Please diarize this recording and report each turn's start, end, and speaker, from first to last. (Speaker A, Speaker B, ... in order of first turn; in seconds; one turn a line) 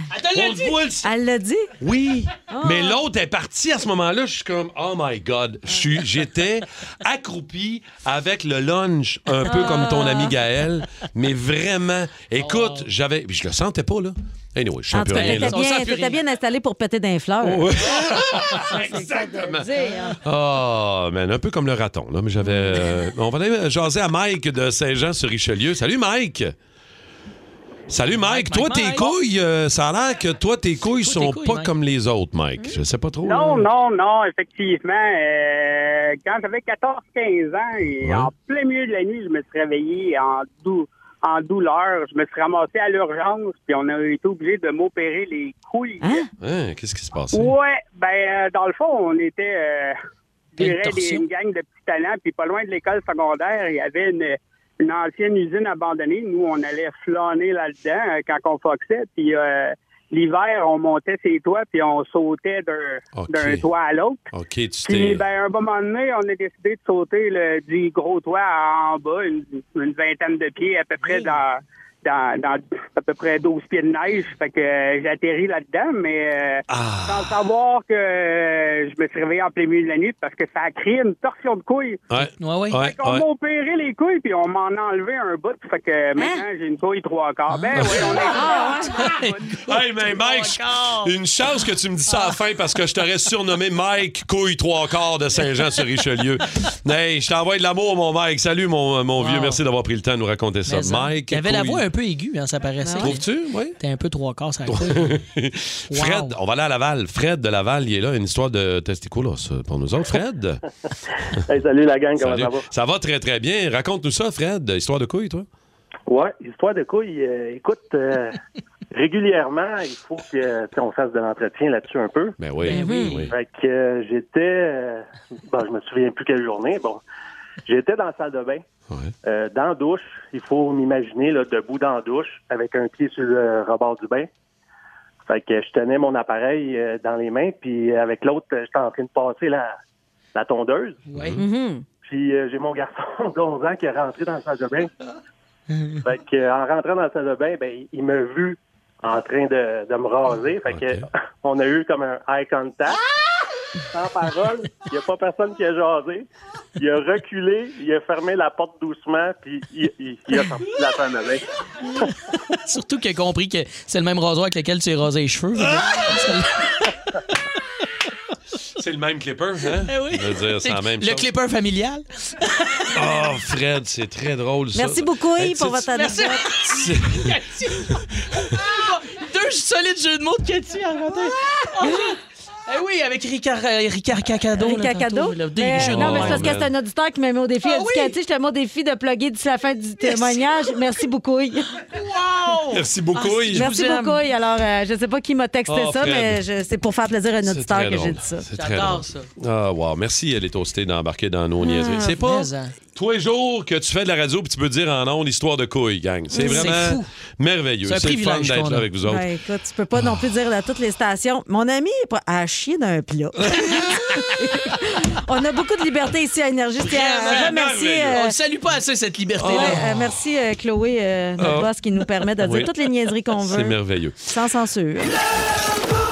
Speaker A: 0.1-0.8
Speaker B: 0.3-1.1
Speaker C: 1.0-1.7
Speaker B: 1.8-15.6
Speaker C: 2.5-3.0
Speaker C: 9.4-10.4
Speaker A: 12.4-12.8
Speaker C: 14.9-17.8
Speaker A: 15.1-16.2
Speaker B: 17.4-26.6
Speaker C: 18.7-20.2
Speaker C: 22.4-22.8
Speaker B: 27.9-33.7
Speaker A: 28.1-29.1
Speaker A: 31.0-31.7
Speaker D: 33.3-46.2
Speaker B: 38.0-38.3
Speaker C: 46.0-46.3
Speaker B: 46.4-47.6
Speaker D: 47.3-50.0
Speaker D: 50.6-64.2
Speaker A: 50.6-51.2
Speaker B: 63.1-63.7
Speaker B: 64.3-65.2
Speaker D: 64.8-82.0
Speaker B: 76.7-77.4
Speaker B: 82.1-83.3
Speaker A: 82.4-82.8
Speaker D: 82.8-89.3
Speaker A: 87.6-91.1
Speaker B: 87.7-88.2
Speaker C: 88.3-89.1
Speaker B: 89.7-101.8
Speaker A: 99.2-99.6
Speaker A: 100.7-103.2
Speaker C: 102.8-103.1
Speaker B: 103.0-103.8
Speaker A: 103.8-105.1
Speaker B: 104.7-110.6
Speaker A: 105.9-106.4
Speaker E: 111.4-112.7
Speaker B: 112.2-115.5
Speaker E: 116.1-118.4
Speaker E: 118.9-122.4
Speaker B: 122.4-123.3
Speaker A: 122.6-123.3
Speaker C: 122.7-123.3
Speaker E: 123.3-127.0
Speaker E: 127.7-128.6
Speaker E: 129.2-134.3
Speaker E: 135.3-139.8
Speaker E: 140.3-141.0
Speaker A: 141.1-141.4
Speaker B: 141.1-141.4
Speaker C: 141.4-141.9
Speaker E: 142.0-144.9
Speaker E: 146.0-153.0
Speaker B: 150.7-151.1
Speaker E: 153.9-156.3
Speaker E: 156.8-161.4
Speaker A: 162.0-166.9
Speaker B: 168.8-171.3
Speaker A: 169.8-173.0
Speaker B: 172.9-175.9
Speaker C: 174.8-176.4
Speaker A: 175.9-186.5
Speaker B: 176.7-177.3
Speaker C: 184.6-191.7
Speaker B: 185.7-186.7
Speaker A: 187.6-188.2
Speaker A: 190.0-190.4
Speaker A: 191.9-194.2
Speaker B: 192.7-193.7
Speaker C: 193.5-198.4
Speaker B: 195.7-196.4
Speaker B: 197.4-209.3
Speaker A: 198.6-199.3
Speaker C: 201.6-202.1
Speaker A: 202.0-202.7
Speaker C: 206.3-206.7
Speaker A: 206.4-207.1
Speaker A: 207.8-208.9
Speaker C: 209.1-218.3
Speaker B: 213.5-213.9
Speaker B: 216.9-218.3
Speaker A: 218.1-219.9
Speaker B: 219.4-219.9
Speaker C: 219.5-225.1
Speaker B: 221.4-221.7
Speaker B: 222.4-222.7
Speaker B: 223.3-224.2